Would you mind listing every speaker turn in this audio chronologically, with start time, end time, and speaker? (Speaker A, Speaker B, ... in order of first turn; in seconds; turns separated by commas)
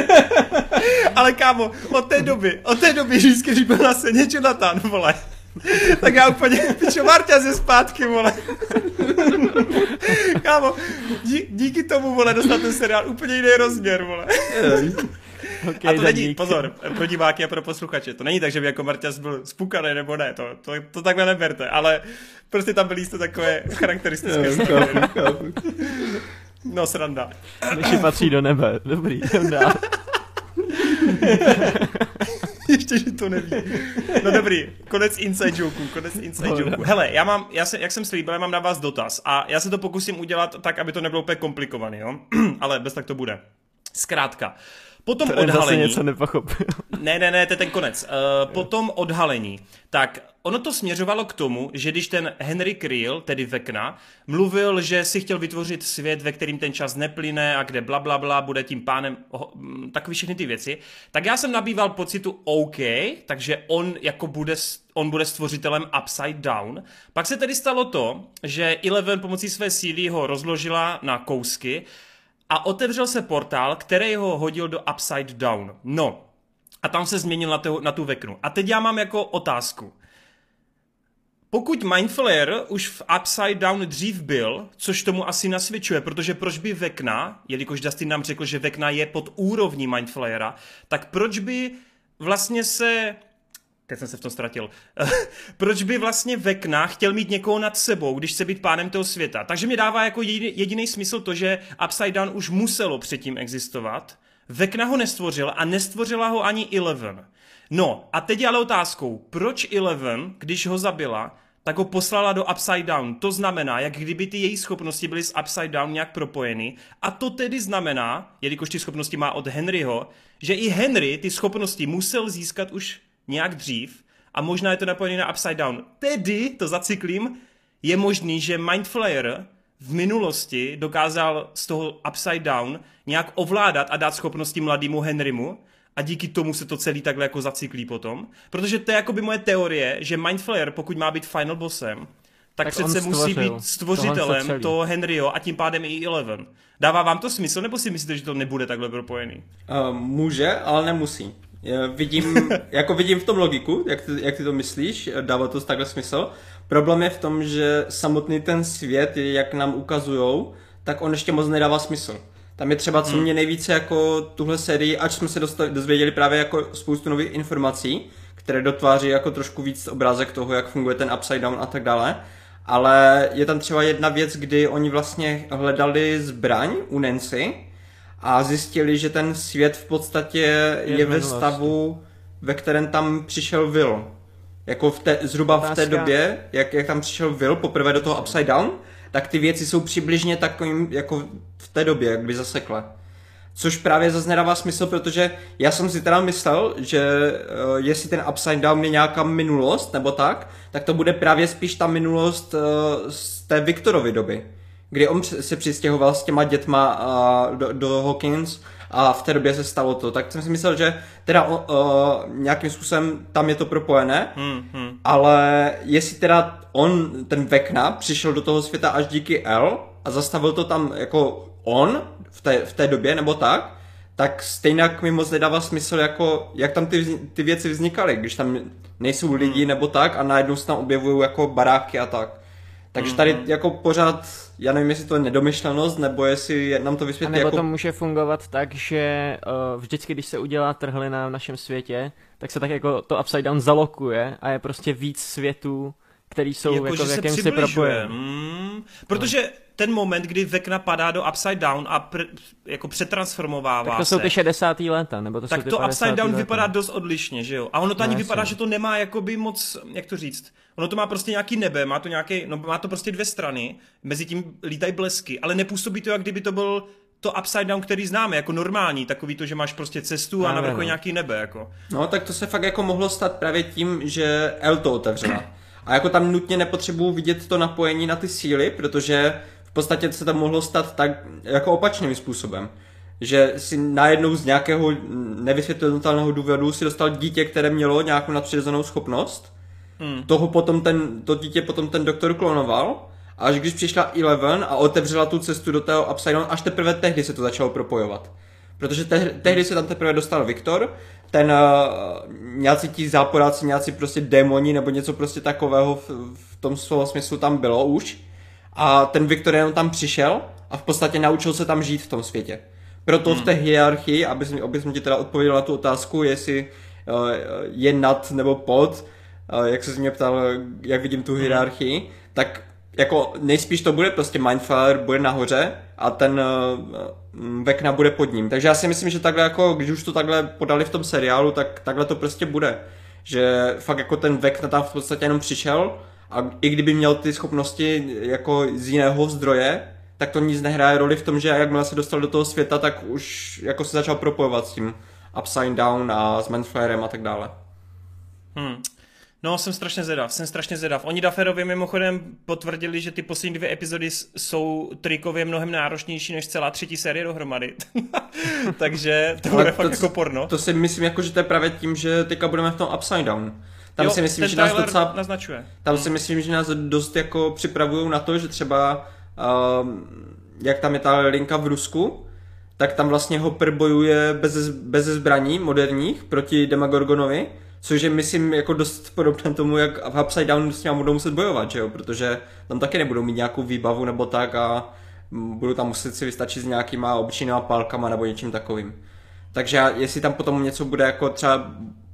Speaker A: 0.7-14.9, Speaker B: 14.5-15.1, Speaker C: 15.6-16.7, Speaker A: 15.8-25.1, Speaker B: 24.2-25.7, Speaker A: 25.9-27.9, Speaker C: 27.6-29.9, Speaker A: 30.9-31.7, Speaker C: 31.5-32.1, Speaker A: 32.5-46.0, Speaker C: 36.4-36.9, Speaker C: 45.2-46.9, Speaker A: 46.9-71.8, Speaker A: 72.5-76.2, Speaker A: 76.8-80.0, Speaker A: 81.5-93.2, Speaker A: 93.9-149.4, Speaker C: 142.6-144.8, Speaker B: 149.7-177.7, Speaker A: 163.0-163.3, Speaker B: 178.2-184.1, Speaker C: 180.8-181.7, Speaker B: 184.7-192.9, Speaker C: 185.6-186.1, Speaker B: 193.5-214.4, Speaker A: 214.3-215.0, Speaker B: 215.0-232.4, Speaker A: 229.4-229.7, Speaker B: 232.9-237.6, Speaker A: 233.0-233.5, Speaker C: 237.2-248.1, Speaker A: 246.7-254.3, Speaker C: 253.8-256.7, Speaker A: 255.5-271.7, Speaker C: 258.0-258.5, Speaker C: 270.4-270.9, Speaker B: 271.9-289.5, Speaker A: 290.0-290.3, Speaker B: 290.3-308.2, Speaker B: 308.7-347.5, Speaker A: 313.2-313.5, Speaker A: 321.4-321.6, Speaker A: 348.5-348.9, Speaker A: 349.4-360.5, Speaker B: 359.5-365.2, Speaker A: 364.0-366.1, Speaker B: 365.8-389.0, Speaker B: 389.5-391.9